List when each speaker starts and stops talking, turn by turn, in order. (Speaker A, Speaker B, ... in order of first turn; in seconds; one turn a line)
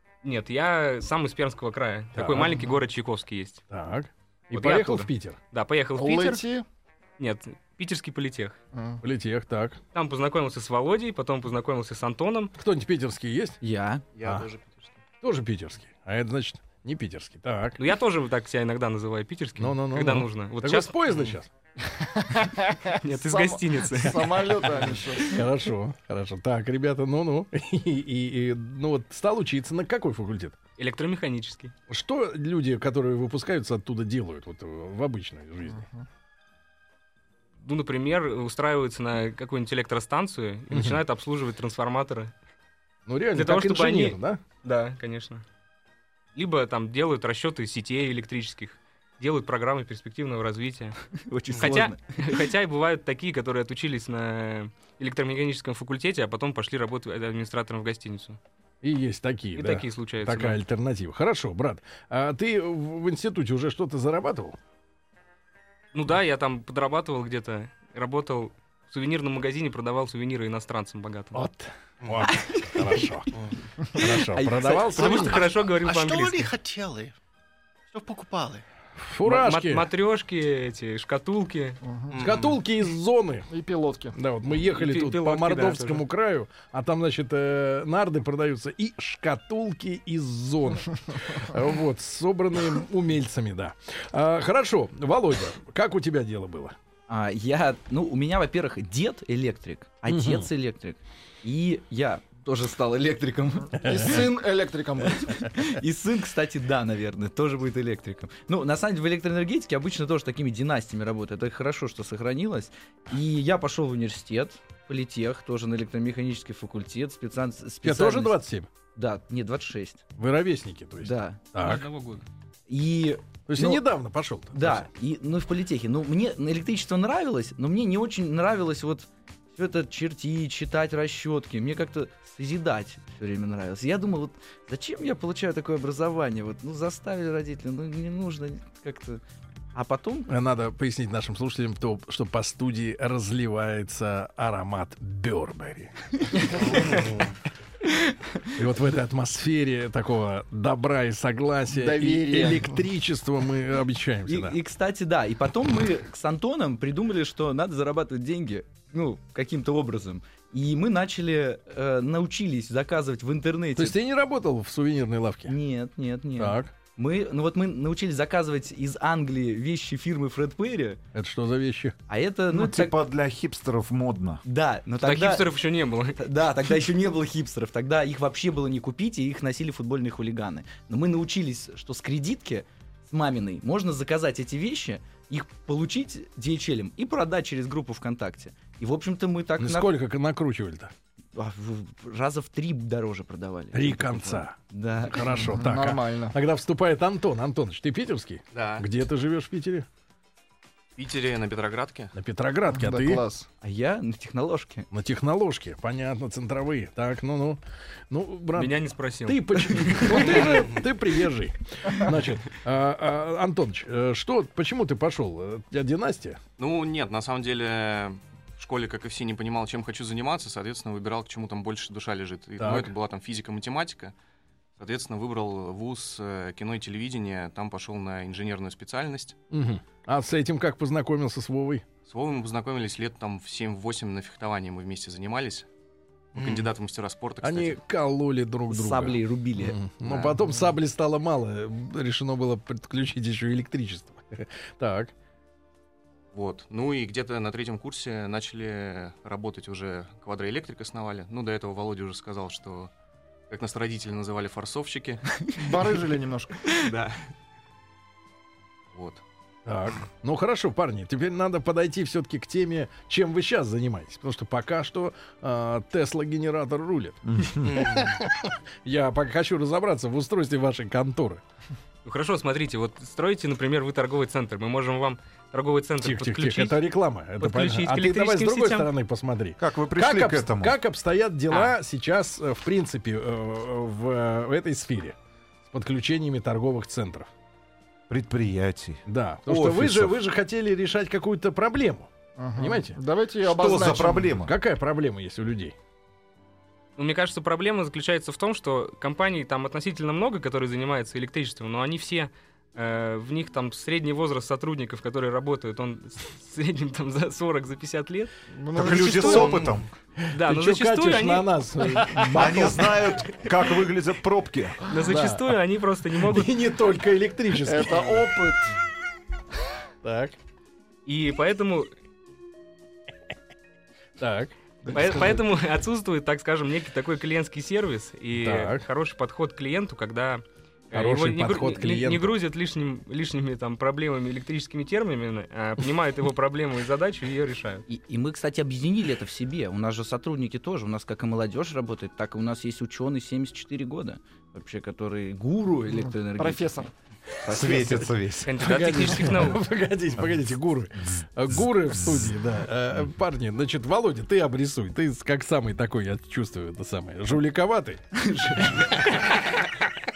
Speaker A: 0.2-3.6
Speaker B: 2.1-2.5
Speaker B: 3.7-5.4
Speaker A: 4.5-6.4
Speaker C: 6.0-6.6
Speaker A: 7.2-8.6
Speaker C: 8.7-9.0
Speaker B: 9.0-9.8
Speaker A: 9.9-12.5
Speaker B: 12.6-13.6
Speaker D: 13.6-14.0
Speaker E: 14.1-15.0
Speaker B: 15.2-17.8
Speaker A: 17.8-20.9
Speaker B: 19.6-21.5
Speaker E: 21.1-21.4
Speaker C: 21.9-25.4
Speaker A: 23.0-24.8
Speaker B: 25.3-30.6
Speaker A: 30.8-31.7
Speaker B: 31.9-35.9
Speaker A: 37.6-42.3
Speaker B: 40.7-41.0
Speaker B: 43.1-44.4
Speaker A: 43.3-45.4
Speaker A: 46.4-51.0
Speaker D: 51.3-52.4
Speaker A: 51.6-58.4
Speaker B: 58.8-64.6
Speaker A: 59.5-60.6
Speaker A: 65.9-71.4
Speaker B: 71.3-73.3
Speaker F: 72.0-72.3
Speaker D: 72.3-72.8
Speaker B: 73.9-75.4
Speaker D: 74.0-75.2
Speaker F: 75.0-77.1
Speaker A: 75.0-76.5
Speaker F: 77.9-78.6
Speaker B: 79.0-79.9
Speaker A: 79.2-81.8
Speaker C: 81.8-82.1
Speaker F: 82.1-82.6
Speaker B: 82.2-83.5
Speaker C: 83.5-84.1
Speaker B: 84.1-96.8
Speaker A: 84.6-86.0
Speaker D: 97.1-104.0
Speaker B: 100.1-100.5
Speaker C: 103.8-105.4
Speaker B: 103.8-104.1
Speaker D: 105.1-118.4
Speaker B: 117.8-118.7
Speaker D: 118.9-120.0
Speaker B: 120.2-121.9
Speaker D: 121.0-121.4
Speaker A: 121.6-122.2
Speaker D: 122.7-123.8
Speaker B: 123.5-124.9
Speaker D: 124.5-139.2
Speaker D: 139.7-140.3
Speaker B: 140.3-145.9
Speaker D: 146.4-146.9
Speaker F: 146.8-147.1
Speaker B: 148.5-154.6
Speaker C: 151.7-152.8
Speaker D: 154.2-164.0
Speaker B: 163.8-165.6
Speaker D: 165.4-171.0
Speaker B: 166.4-166.7
Speaker B: 171.1-171.9
Speaker D: 172.1-173.0
Speaker G: 172.5-174.4
Speaker D: 174.4-175.5
Speaker A: 175.0-176.2
Speaker D: 176.2-189.9
Speaker B: 189.6-190.9
Speaker D: 191.3-195.4
Speaker B: 193.7-199.9
Speaker C: 195.4-196.3
Speaker E: 198.5-198.8
Speaker E: 200.9-202.1
Speaker B: 202.1-203.2
Speaker C: 202.7-203.5
Speaker D: 203.6-204.9
Speaker B: 204.9-216.4
Speaker A: 208.5-210.5
Speaker E: 216.6-224.1
Speaker B: 222.6-222.9
Speaker E: 224.8-229.4
Speaker B: 229.5-231.8
Speaker E: 232.0-235.7
Speaker E: 236.3-237.8
Speaker F: 236.4-236.7
Speaker B: 237.4-245.1
Speaker D: 238.7-240.2
Speaker E: 246.3-252.9
Speaker E: 253.5-255.4
Speaker C: 255.6-256.6
Speaker E: 256.8-257.2
Speaker E: 258.9-259.2
Speaker B: 259.6-267.2
Speaker G: 267.2-267.9
Speaker B: 268.8-271.4
Speaker A: 272.0-276.8
Speaker B: 276.0-287.3
Speaker A: 277.4-278.9
Speaker G: 279.6-280.7
Speaker G: 288.1-290.1
Speaker B: 289.1-293.0
Speaker C: 292.4-294.4
Speaker G: 293.4-294.5
Speaker B: 294.4-295.7
Speaker A: 297.0-308.3
Speaker C: 308.5-309.6
Speaker G: 308.7-309.9
Speaker B: 310.2-313.1
Speaker A: 310.3-311.5
Speaker C: 312.0-312.7
Speaker G: 312.3-314.8
Speaker A: 314.9-316.6
Speaker B: 315.0-315.5
Speaker B: 316.2-318.2
Speaker C: 317.6-318.7
Speaker B: 320.0-320.4
Speaker A: 321.1-321.9
Speaker B: 324.2-325.4
Speaker A: 324.9-337.9
Speaker B: 328.4-328.8
Speaker B: 330.9-332.4
Speaker D: 337.9-346.7
Speaker C: 346.0-346.9
Speaker D: 347.4-348.1
Speaker G: 347.4-348.5
Speaker A: 348.4-349.6
Speaker B: 348.5-358.0
Speaker D: 358.1-359.0
Speaker B: 358.6-359.5